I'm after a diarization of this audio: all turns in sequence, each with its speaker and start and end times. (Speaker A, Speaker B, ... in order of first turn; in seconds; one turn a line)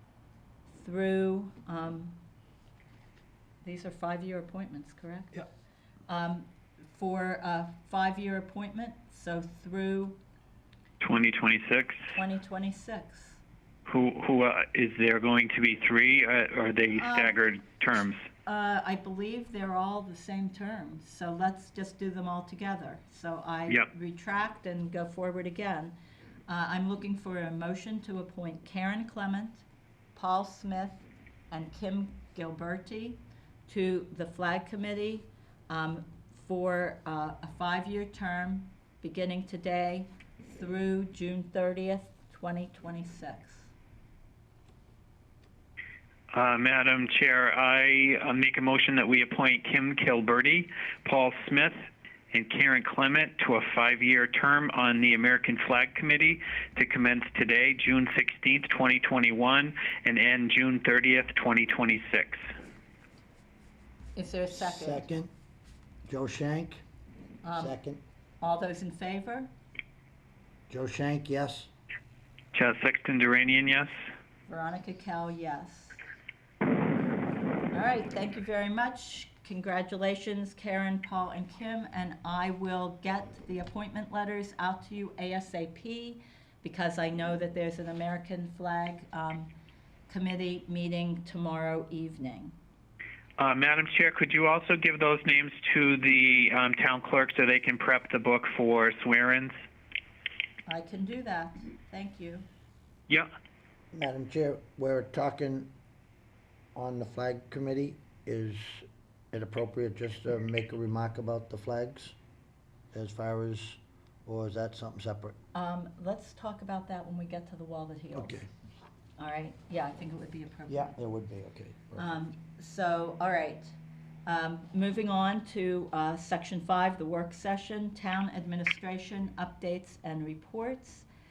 Speaker A: 0.7-2.2
Speaker A: 3.6-5.5
Speaker A: 6.1-10.2
Speaker B: 11.0-12.0
Speaker A: 12.1-13.4
Speaker B: 13.8-18.2
Speaker A: 16.9-17.4
Speaker A: 18.4-25.9
Speaker A: 26.5-43.7
Speaker B: 46.3-51.7
Speaker B: 52.3-62.4
Speaker A: 64.2-65.0
Speaker C: 64.5-65.3
Speaker C: 66.1-66.8
Speaker A: 67.4-67.8
Speaker C: 67.6-68.0
Speaker A: 68.4-69.5
Speaker C: 70.7-71.7
Speaker B: 72.5-73.9
Speaker A: 74.5-76.0
Speaker A: 77.7-89.5
Speaker A: 90.1-92.5
Speaker B: 93.4-99.5
Speaker A: 100.7-102.4
Speaker C: 103.9-105.7
Speaker C: 106.7-112.1
Speaker C: 112.9-115.3
Speaker A: 115.5-118.4
Speaker C: 118.1-118.5
Speaker A: 119.2-121.0
Speaker C: 120.7-122.2
Speaker A: 122.0-131.1